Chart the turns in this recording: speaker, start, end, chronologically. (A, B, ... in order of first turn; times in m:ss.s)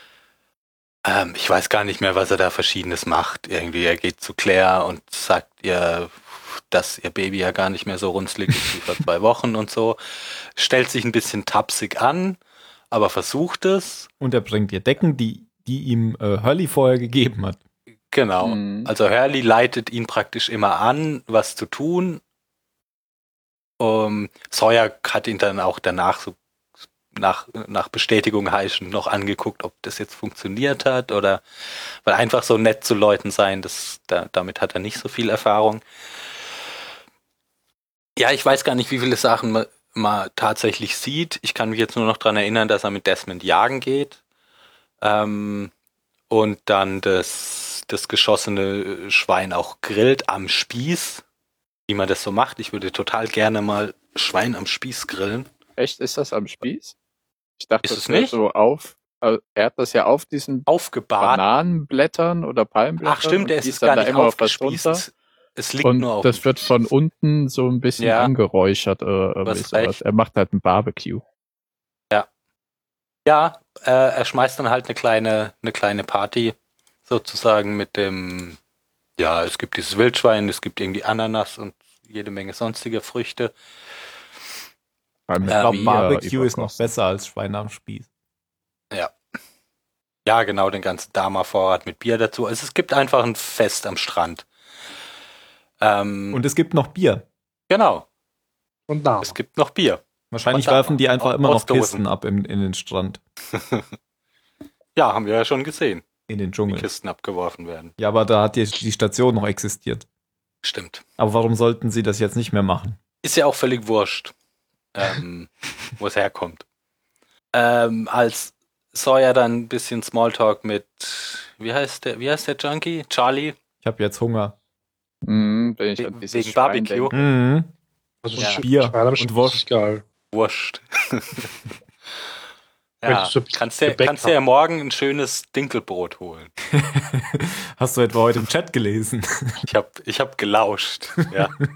0:01.0-0:10.0 A
0:10.6-0:12.4 A
0:12.9-0:14.1 A
0:14.2-0:17.6 B
0:18.1-0:22.2 A
0:18.4-0:18.9 C
0:23.8-0:26.4 A
0:27.1-0:31.4 A
0:32.0-0:35.8 A
0:38.2-0:44.2 A
0:45.0-0:45.7 A
0:46.3-0:51.2 A
0:51.9-0:55.5 A
0:55.8-0:57.0 C
0:57.6-1:00.7 C
0:57.8-0:58.4 A
1:00.7-1:01.4 A
1:01.2-1:05.0 C
1:03.0-1:06.7 A
1:05.8-1:11.2 C
1:08.0-1:08.3 A
1:09.4-1:10.0 A
1:13.3-1:16.6 A
1:17.1-1:18.6 A
1:19.2-1:23.5 A
1:25.3-1:26.9 C
1:25.4-1:28.1 B
1:25.5-1:26.0 A
1:30.3-1:34.5 A
1:35.8-1:36.4 A
1:36.3-1:37.2 B
1:37.7-1:38.0 A
1:38.9-1:39.4 D
1:39.2-1:42.0 A
1:40.3-1:43.2 B
1:43.5-1:43.9 A
1:45.0-1:46.0 A
1:46.3-1:46.9 B
1:46.7-1:47.9 A
1:48.0-1:50.1 B
1:50.6-1:51.0 A
1:51.2-1:53.0 B
1:53.2-1:54.3 A
1:55.0-1:56.6 A
1:57.5-2:03.6 A
2:03.8-2:04.6 B
2:05.2-2:07.2 C
2:06.0-2:07.2 A
2:07.1-2:07.7 B
2:08.2-2:10.0 D
2:08.4-2:09.6 B
2:08.4-2:08.6 A
2:10.3-2:11.5 A
2:13.0-2:16.5 A
2:13.1-2:14.4 D
2:16.7-2:19.6 B
2:19.7-2:21.6 A